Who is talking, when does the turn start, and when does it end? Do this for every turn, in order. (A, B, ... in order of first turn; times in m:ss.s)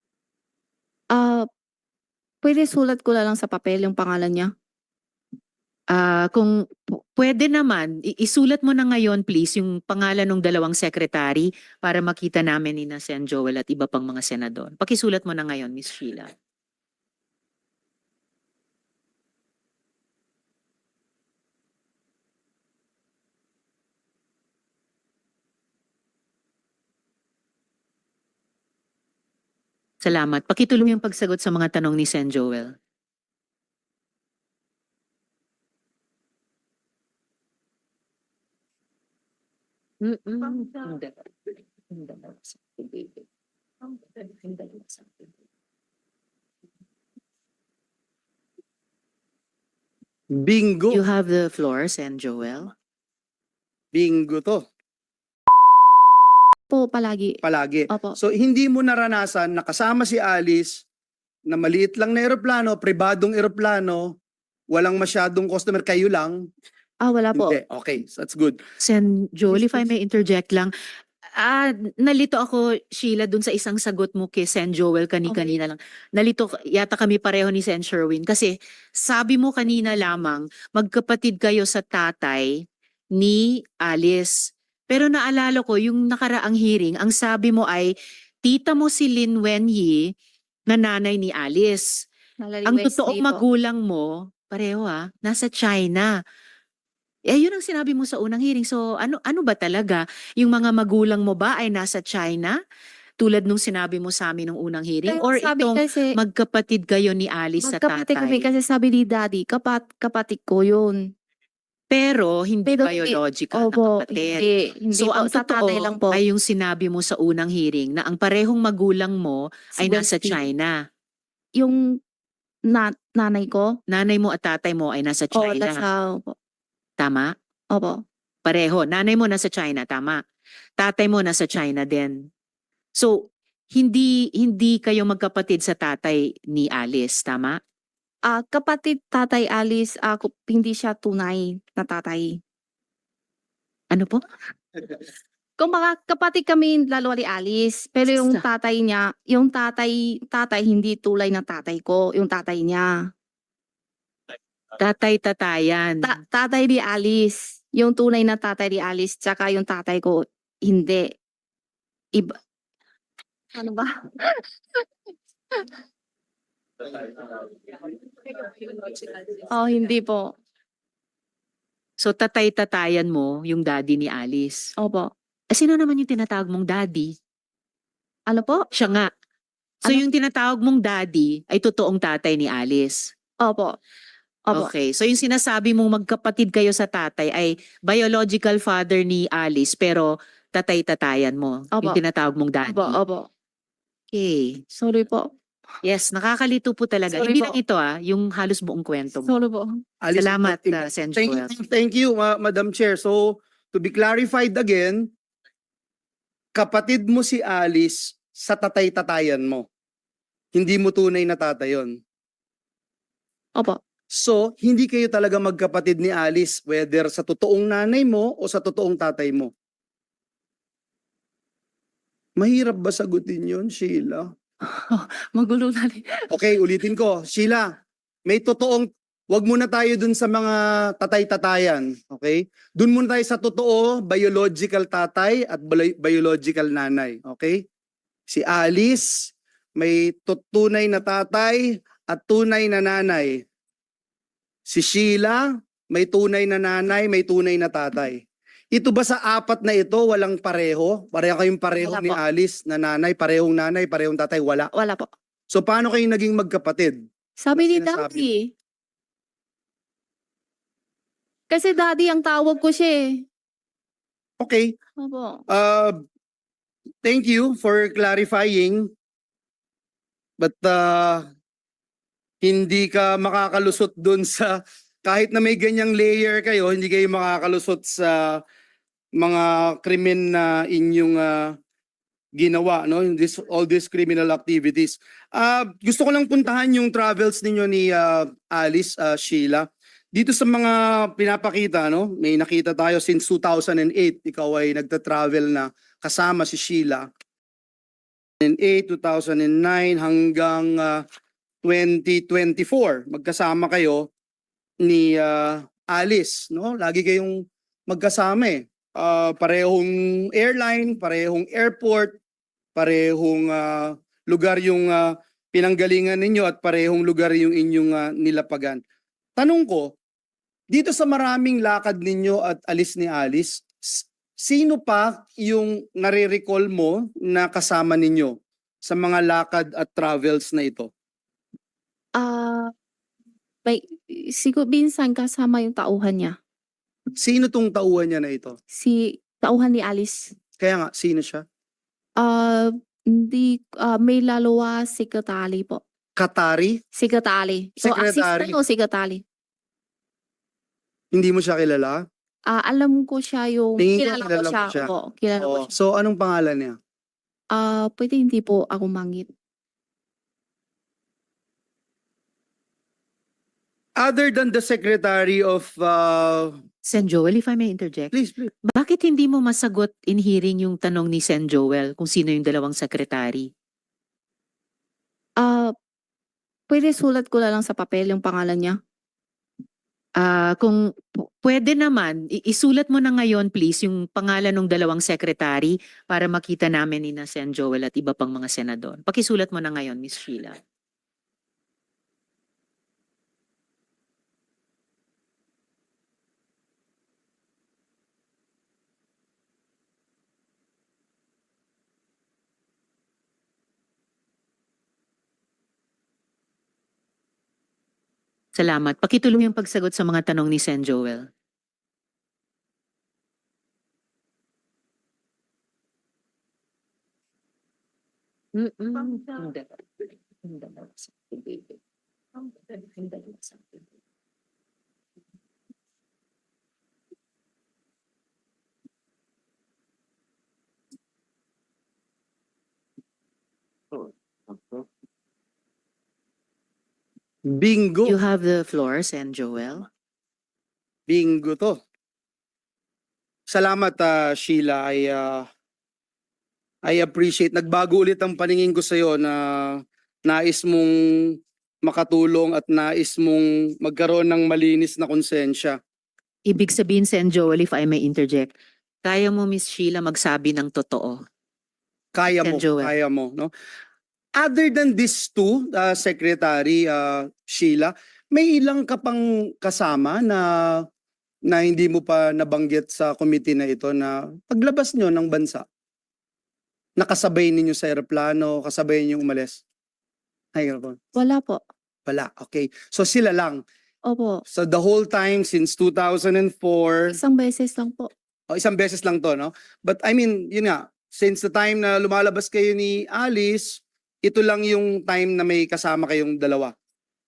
0:01.1-0:01.4 A
0:02.4-0:04.5 A
0:05.9-0:16.3 B
0:30.0-0:32.7 B
0:40.0-0:43.2 B
0:43.8-0:45.3 B
0:50.3-0:51.0 C
0:50.9-0:52.7 B
0:53.9-0:54.6 C
0:56.7-0:58.2 A
0:57.4-1:00.8 C
1:01.5-1:04.1 C
1:04.7-1:06.4 C
1:07.0-1:07.6 A
1:07.3-1:08.6 C
1:08.8-1:10.7 B
1:11.3-1:22.6 B
1:23.2-1:27.9 B
1:28.4-1:30.1 B
1:30.7-1:31.9 B
1:32.4-1:33.4 A
1:32.6-1:36.1 B
1:37.3-1:42.6 B
1:43.2-1:48.5 B
1:45.1-1:46.1 A
1:47.6-1:51.0 A
1:51.9-2:00.7 B
1:52.6-1:56.2 A
1:59.8-2:00.4 A
2:02.7-2:03.7 A
2:03.9-2:05.8 B
2:05.4-2:06.4 A
2:07.0-2:07.3 B
2:07.7-2:08.0 A
2:08.4-2:10.2 B
2:10.8-2:12.3 B
2:12.9-2:17.6 B
2:18.3-2:22.3 A
2:23.9-2:24.2 B
2:25.6-2:32.9 A
2:28.1-2:28.4 B
2:34.8-2:36.2 B
2:36.0-2:41.2 A
2:43.5-2:44.4 A
2:47.1-2:47.5 A
2:49.5-2:50.3 A
2:52.0-2:54.7 B
2:54.8-2:55.1 A
2:55.5-2:57.1 B
2:58.3-2:58.7 A
2:58.7-2:59.1 B
2:59.8-3:03.1 B
3:03.4-3:03.8 A
3:04.5-3:13.0 B
3:12.7-3:13.3 A
3:14.1-3:14.6 B
3:14.7-3:15.3 A
3:15.8-3:19.4 B
3:17.1-3:17.6 A
3:19.3-3:19.7 A
3:20.0-3:25.0 C
3:20.1-3:21.5 B
3:26.6-3:29.6 C
3:30.5-3:31.9 C
3:34.1-3:39.5 C
3:42.4-3:44.3 C
3:44.6-3:46.3 A
3:46.3-3:47.7 C
3:48.2-3:57.6 C
3:58.3-4:03.4 C
4:04.7-4:08.2 C
4:08.7-4:14.7 C
4:11.8-4:12.2 A
4:14.7-4:15.1 A
4:15.5-4:17.0 C
4:17.4-4:18.5 A
4:17.5-4:18.2 C
4:21.5-4:23.2 A
4:24.4-4:24.7 C
4:25.0-4:25.4 A
4:25.5-4:26.0 C
4:27.0-4:28.9 C
4:30.4-4:31.2 C
4:32.4-4:38.4 C
4:39.2-4:41.5 C
4:42.4-4:57.1 C
4:58.4-5:01.0 C
5:01.6-5:04.1 C
5:04.8-5:12.2 C
5:12.8-5:18.8 C
5:19.4-5:19.9 C
5:20.7-5:30.9 C
5:32.2-5:32.7 A
5:33.6-5:36.3 A
5:37.2-5:38.5 C
5:38.8-5:40.3 A
5:40.6-5:41.4 C
5:42.2-5:45.8 A
5:46.2-5:46.8 C
5:46.9-5:49.2 A
5:47.8-5:48.6 C
5:51.1-5:52.0 C
5:52.5-5:55.7 A
5:53.8-5:56.8 C
5:57.5-5:59.3 A
6:04.0-6:06.6 C
6:06.8-6:08.1 B
6:08.1-6:08.5 C
6:08.7-6:13.5 B
6:15.4-6:15.7 A
6:16.7-6:18.8 A
6:20.2-6:30.6 B
6:48.6-6:51.3 B
6:58.6-7:01.8 B
7:02.4-7:03.8 B
7:17.5-7:18.2 C
7:18.0-7:19.8 B
7:21.1-7:21.8 C
7:23.5-7:25.4 C
7:26.8-7:31.3 C
7:31.8-7:35.8 C
7:36.5-7:38.5 B
7:39.0-7:41.2 B
7:42.1-7:43.5 C
7:42.3-7:42.9 B
7:44.4-7:50.8 C
7:51.5-7:55.6 C
7:57.0-7:59.6 C
8:00.5-8:01.0 C
8:01.1-8:01.6 A
8:02.1-8:03.6 C
8:04.1-8:04.4 A
8:04.5-8:07.2 C
8:07.1-8:08.1 A
8:08.5-8:16.7 C